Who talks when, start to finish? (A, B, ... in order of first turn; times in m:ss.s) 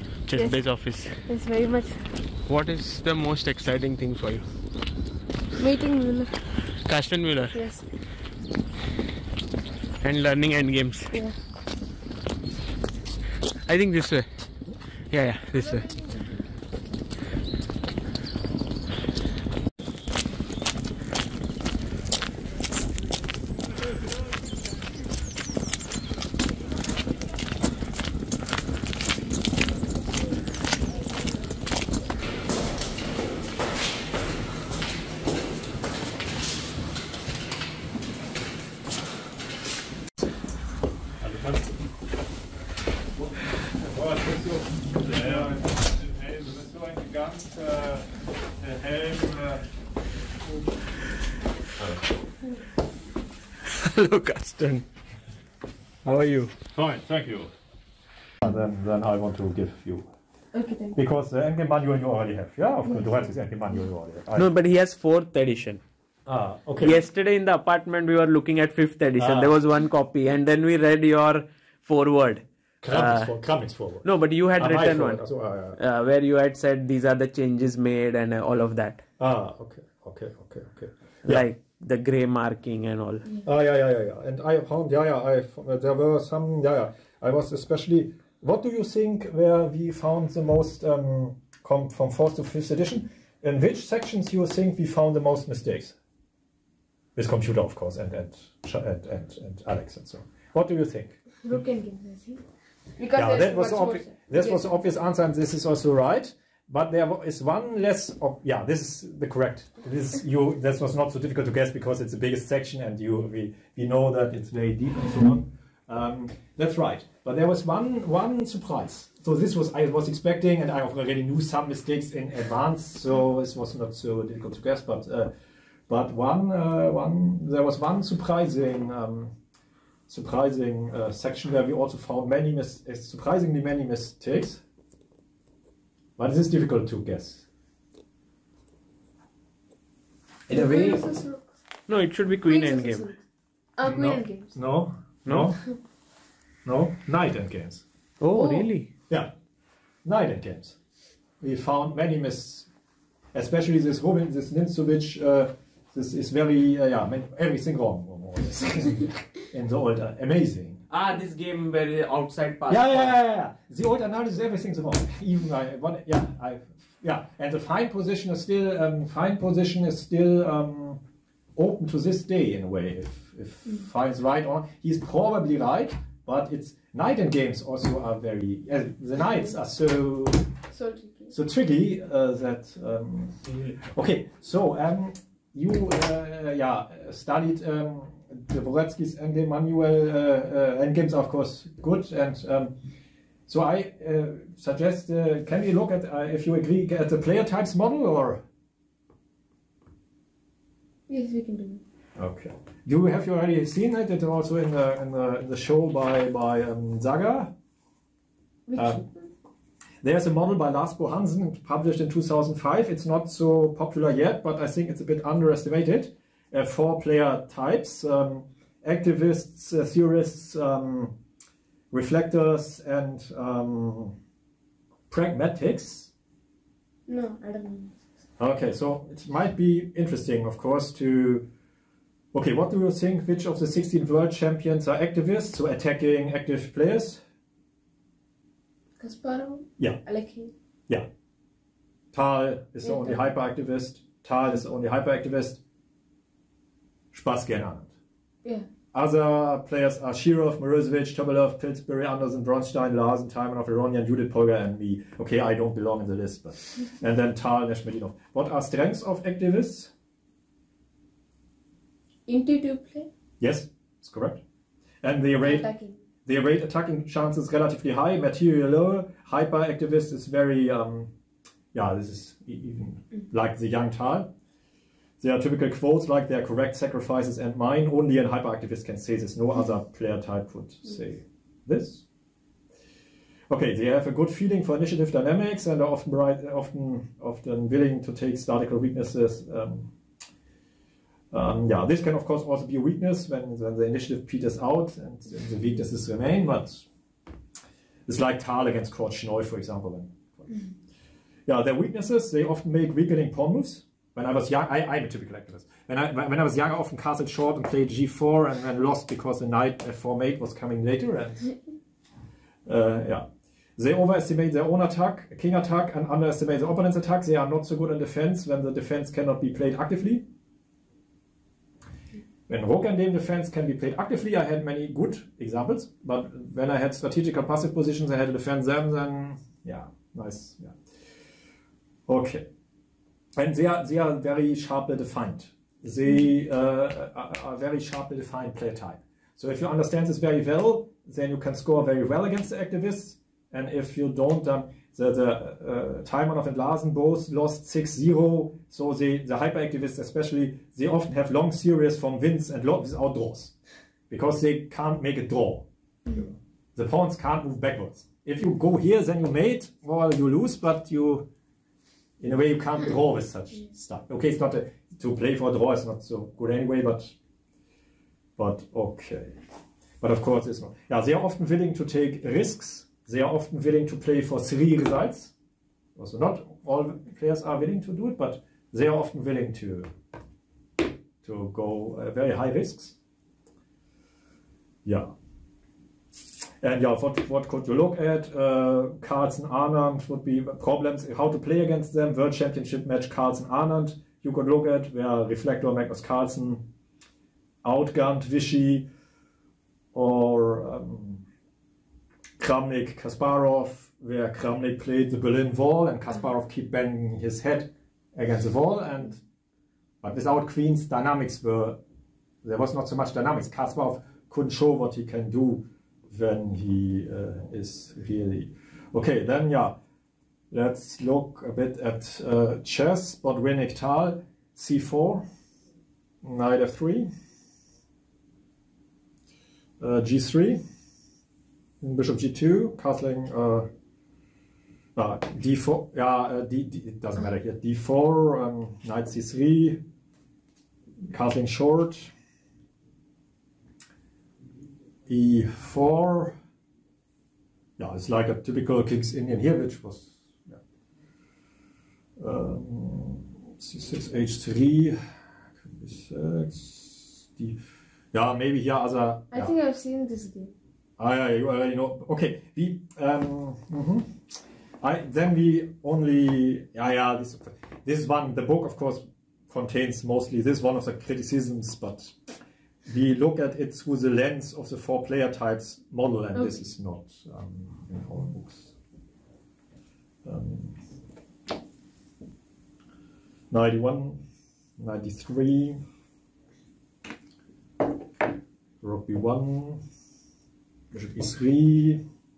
0:00.3-0:01.2 A
0:01.2-0:02.1 B
0:02.5-0:04.5 A
0:05.6-0:06.4 B
0:06.8-0:07.6 A
0:07.5-0:07.8 B
0:10.0-0:11.2 A
0:13.7-0:14.3 A
0:15.1-0:16.0 A
0:15.8-0:16.1 B
0:41.2-0:41.7 C
0:43.2-0:48.1 C
0:48.6-0:49.7 C
0:53.7-0:54.8 A
0:56.0-0:56.5 A
0:56.7-0:57.5 C
0:58.4-1:00.1 C
1:00.5-1:01.0 B
1:01.0-1:04.5 C
1:04.4-1:05.8 A
1:06.3-1:07.0 C
1:06.8-1:13.3 A
1:09.2-1:09.5 C
1:12.8-1:15.8 C
1:14.0-1:15.2 A
1:15.8-1:19.0 A
1:19.2-1:21.4 C
1:21.2-1:23.3 A
1:23.4-1:36.0 C
1:37.2-1:41.2 C
1:41.4-1:42.4 B
1:43.0-1:44.7 B
1:43.2-2:05.3 C
2:05.9-2:09.3 C
2:10.1-2:14.6 C
2:16.2-2:17.5 C
2:20.5-2:21.0 C
2:20.5-2:21.5 B
2:21.9-2:23.1 A
2:22.4-2:23.2 B
2:23.8-2:24.6 B
2:23.8-2:25.6 C
2:25.2-2:25.5 A
2:26.6-2:27.8 C
2:28.2-2:28.9 A
2:28.3-2:28.7 B
2:30.0-2:30.8 C
2:31.4-2:32.7 C
2:33.3-2:40.8 C
2:40.9-2:43.1 A
2:42.7-2:51.0 C
2:51.6-3:00.5 C
3:00.7-3:01.4 B
3:01.3-3:12.8 C
3:13.5-3:18.4 C
3:21.1-3:21.8 B
3:22.2-3:27.5 C
3:28.7-3:29.3 B
3:28.8-3:29.0 C
3:30.0-3:41.2 C
3:41.9-3:44.2 C
3:45.1-3:46.1 C
3:47.1-3:48.0 B
3:48.4-3:51.5 C
3:52.3-3:57.2 C
3:59.0-4:00.5 B
4:02.1-4:05.6 C
4:02.8-4:03.2 B
4:07.1-4:07.9 C
4:08.9-4:19.9 C
4:22.3-4:23.1 B
4:23.4-4:24.4 C
4:25.0-4:25.7 C
4:25.4-4:26.0 B
4:26.2-4:31.1 C
4:31.7-4:34.3 C
4:35.2-4:42.0 C
4:43.5-4:49.9 C
4:51.3-4:56.9 C
4:58.1-5:00.5 C
5:01.5-5:11.5 C
5:12.7-5:20.2 C
5:22.5-5:30.8 C
5:32.1-5:32.5 C
5:33.4-5:53.5 C
5:54.1-6:01.3 C
6:02.2-6:07.2 C
6:08.4-6:09.4 C
6:10.0-6:15.3 C
6:16.0-6:19.9 C
6:21.2-6:23.0 C
6:24.8-6:25.1 C
6:26.6-6:36.6 C
6:37.6-6:38.9 C
6:39.9-6:41.2 C
6:42.4-6:49.2 C
6:50.0-6:51.8 C
6:52.4-6:59.8 C
7:00.5-7:05.2 C
7:06.2-7:07.1 C
7:09.8-7:10.6 C
7:11.8-7:13.7 C
7:15.0-7:19.8 C
7:21.1-7:22.1 C
7:25.1-7:26.4 C
7:27.8-7:30.6 C
7:32.2-7:35.0 C
7:35.7-7:37.6 C
7:38.1-7:39.6 C
7:39.3-7:40.5 B
7:41.0-7:44.1 C
7:44.8-7:52.2 C
7:52.9-7:58.7 C
8:00.2-8:00.8 C
8:03.5-8:04.2 C
8:04.8-8:05.8 C
8:08.8-8:09.8 C
8:10.9-8:12.0 C